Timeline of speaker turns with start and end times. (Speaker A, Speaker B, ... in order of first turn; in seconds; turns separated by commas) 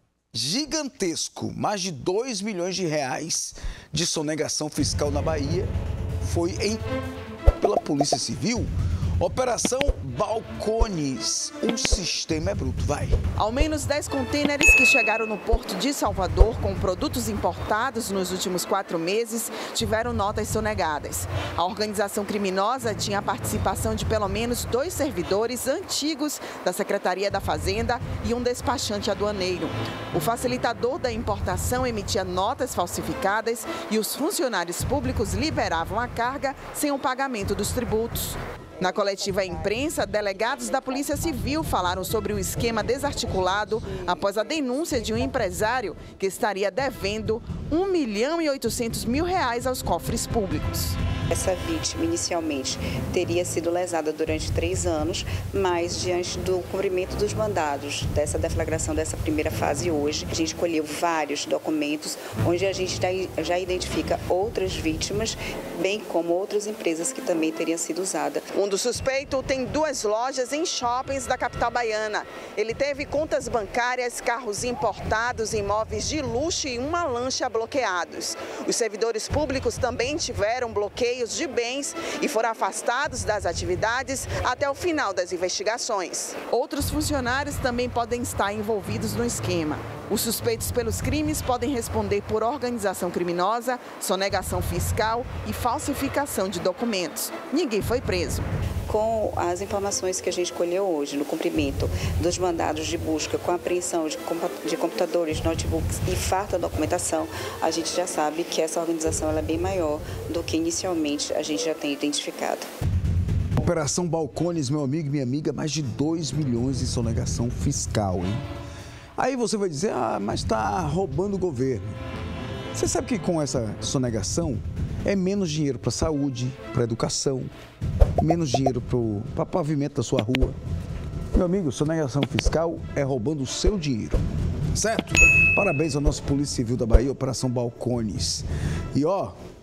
Speaker A: 0.3-5.7, Speaker A: 6.2-6.8, Speaker A: 7.6-13.2, Speaker B: 13.3-51.0, Speaker C: 51.3-68.5, Speaker B: 68.5-98.5, Speaker C: 98.9-112.7, Speaker A: 113.6-118.4, Speaker A: 119.2-122.0, Speaker A: 122.7-127.5, Speaker A: 128.2-130.6, Speaker A: 131.3-134.2, Speaker A: 134.7-139.3